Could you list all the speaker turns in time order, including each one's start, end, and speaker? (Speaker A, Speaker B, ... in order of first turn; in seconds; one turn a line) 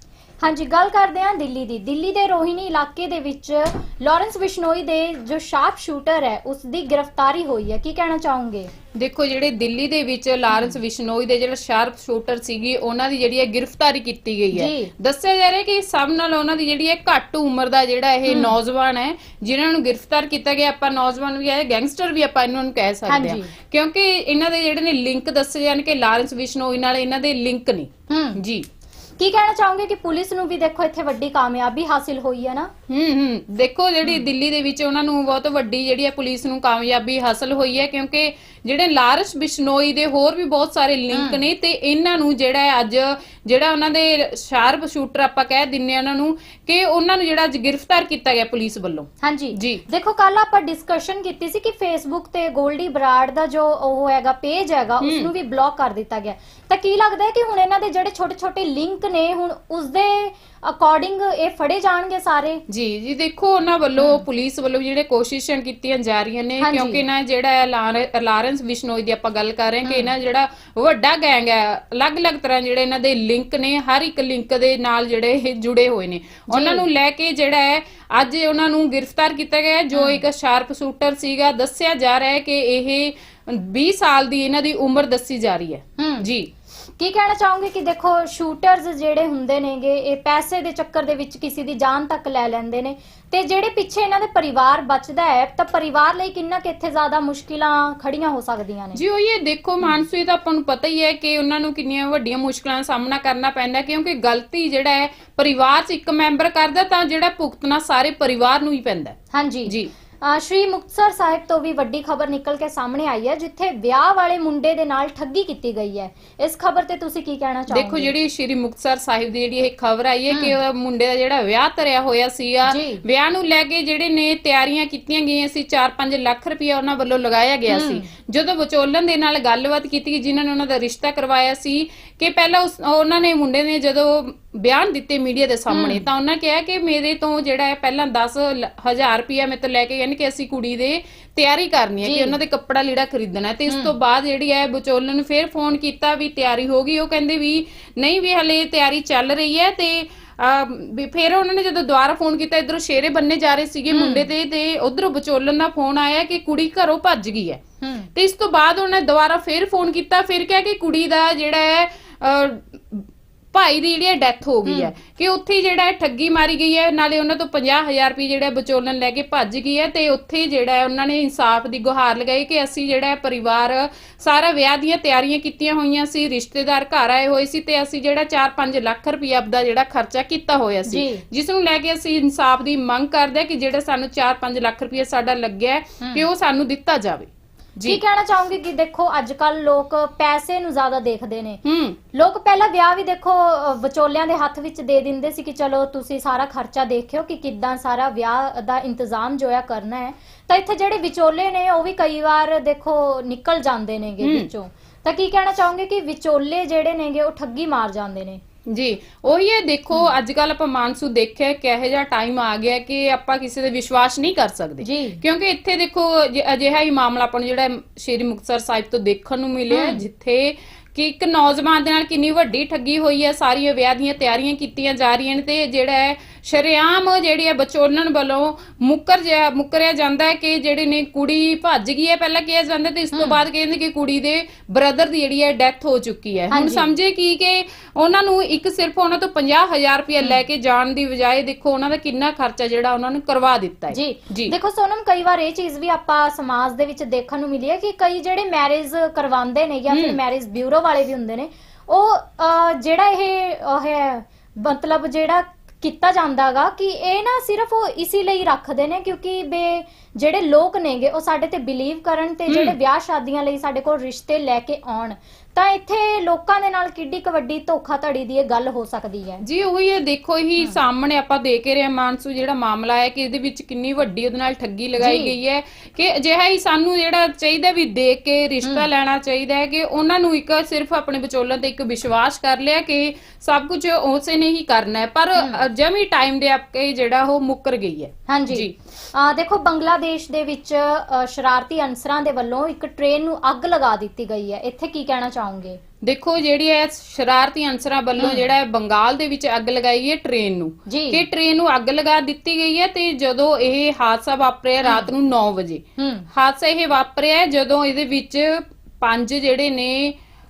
Speaker A: 0.4-8.7
Speaker B: 8.9-28.6
Speaker A: 10.5-10.8
Speaker A: 14.5-14.9
Speaker A: 18.3-18.5
Speaker A: 23.1-23.5
Speaker A: 28.1-28.4
Speaker A: 29.2-32.7
Speaker B: 32.9-49.8
Speaker A: 41.1-41.4
Speaker A: 49.2-62.6
Speaker B: 55.0-55.3
Speaker B: 62.7-86.5
Speaker A: 64.0-64.2
Speaker A: 66.6-67.0
Speaker A: 69.8-70.1
Speaker A: 76.5-76.8
Speaker A: 79.9-80.2
Speaker A: 86.0-86.3
Speaker A: 87.0-99.0
Speaker B: 98.9-109.9
Speaker A: 109.3-118.1
Speaker B: 117.7-157.6
Speaker A: 120.3-120.6
Speaker A: 122.7-123.0
Speaker A: 127.7-128.1
Speaker A: 135.7-136.0
Speaker A: 142.0-142.4
Speaker A: 143.7-143.9
Speaker A: 153.9-154.3
Speaker A: 157.8-158.1
Speaker B: 158.1-188.0
Speaker A: 164.7-164.9
Speaker A: 180.9-181.2
Speaker A: 186.0-186.3
Speaker A: 187.8-191.6
Speaker B: 191.6-192.0
Speaker A: 192.1-208.4
Speaker B: 208.7-244.5
Speaker A: 214.8-215.2
Speaker A: 219.7-220.0
Speaker A: 233.1-233.4
Speaker A: 236.5-236.9
Speaker A: 243.9-269.4
Speaker B: 249.9-250.2
Speaker B: 262.5-262.7
Speaker B: 269.4-288.7
Speaker A: 275.0-275.3
Speaker A: 285.4-285.6
Speaker A: 288.3-295.8
Speaker B: 296.0-310.2
Speaker A: 298.2-298.5
Speaker A: 300.9-301.2
Speaker A: 304.8-305.1
Speaker A: 306.0-306.3